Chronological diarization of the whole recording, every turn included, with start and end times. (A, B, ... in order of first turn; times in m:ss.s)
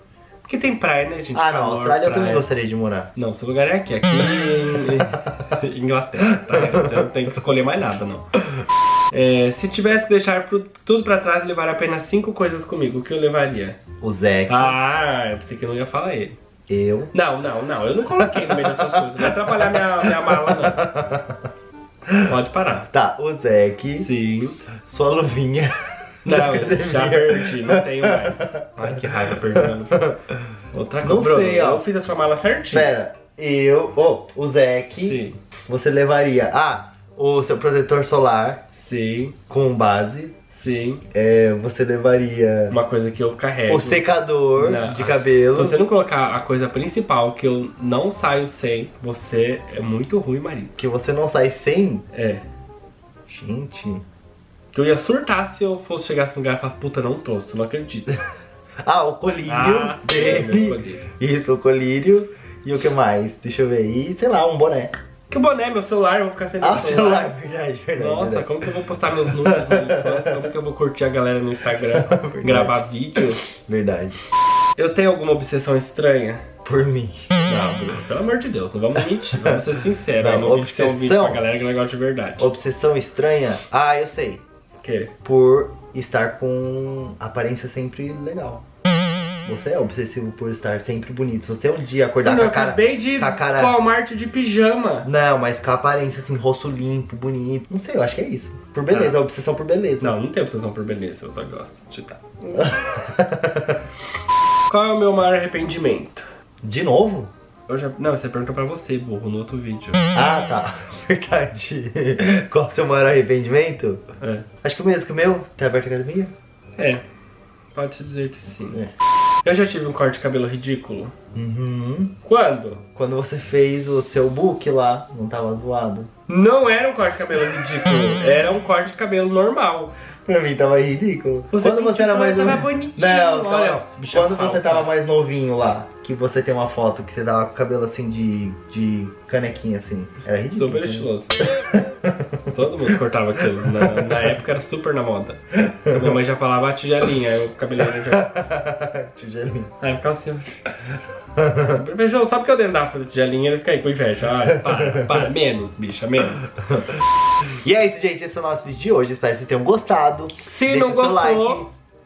0:00.4-0:02.5 A
0:01.3-0:03.1 B
0:03.2-0:08.3 A
0:04.9-0:05.1 B
0:06.5-0:06.8 B
0:09.1-0:13.8 A
0:14.0-0:14.7 B
0:14.5-0:16.4 A
0:16.7-0:17.1 B
0:17.1-0:20.8 A
0:18.2-0:21.4 B
0:22.1-0:22.3 B
0:22.2-0:22.9 A
0:22.9-0:24.1 B
0:23.9-0:24.6 A
0:24.9-0:28.9 B
0:26.2-0:30.1 A
0:29.6-0:30.2 B
0:30.7-0:32.9 A
0:31.0-0:31.8 B
0:32.7-0:38.6 B
0:35.0-0:35.4 A
0:38.7-0:39.3 A
0:39.5-0:40.3 B
0:40.5-0:41.0 A
0:41.1-0:42.8 B
0:42.7-0:44.0 A
0:43.7-0:45.8 B
0:44.6-0:50.7 A
0:50.8-0:52.0 B
0:52.1-0:52.4 A
0:53.3-0:54.0 B
0:54.7-0:58.1 A
0:58.8-1:04.9 B
0:59.5-1:01.1 A
1:05.3-1:07.3 A
1:06.6-1:08.6 B
1:08.0-1:13.4 A
1:09.2-1:10.5 B
1:11.9-1:12.8 B
1:13.5-1:14.2 B
1:14.8-1:16.4 A
1:16.6-1:17.3 B
1:17.4-1:22.5 A
1:19.3-1:19.7 B
1:20.2-1:21.4 B
1:22.4-1:24.4 B
1:24.8-1:25.1 A
1:25.2-1:28.6 B
1:29.4-1:33.8 B
1:32.2-1:35.1 A
1:35.0-1:40.2 B
1:38.9-1:39.2 A
1:40.0-1:42.8 A
1:42.5-1:43.8 B
1:44.7-1:46.3 A
1:46.6-1:47.3 B
1:47.7-1:50.0 A
1:50.1-1:54.0 B
1:54.2-1:54.4 A
1:54.6-1:56.3 B
1:56.8-1:57.0 A
1:57.7-1:58.8 A
1:59.4-2:01.1 A
2:01.3-2:02.1 B
2:02.2-2:02.8 A
2:02.9-2:06.1 B
2:06.3-2:09.9 A
2:10.2-2:21.1 B
2:11.5-2:14.9 A
2:20.5-2:21.3 A
2:21.7-2:22.5 B
2:22.5-2:28.3 A
2:23.6-2:24.2 B
2:25.7-2:26.1 B
2:28.0-2:29.7 B
2:29.8-2:30.6 A
2:31.4-2:31.8 B
2:31.6-2:36.6 A
2:34.5-2:35.3 B
2:36.7-2:41.7 B
2:40.4-2:41.6 A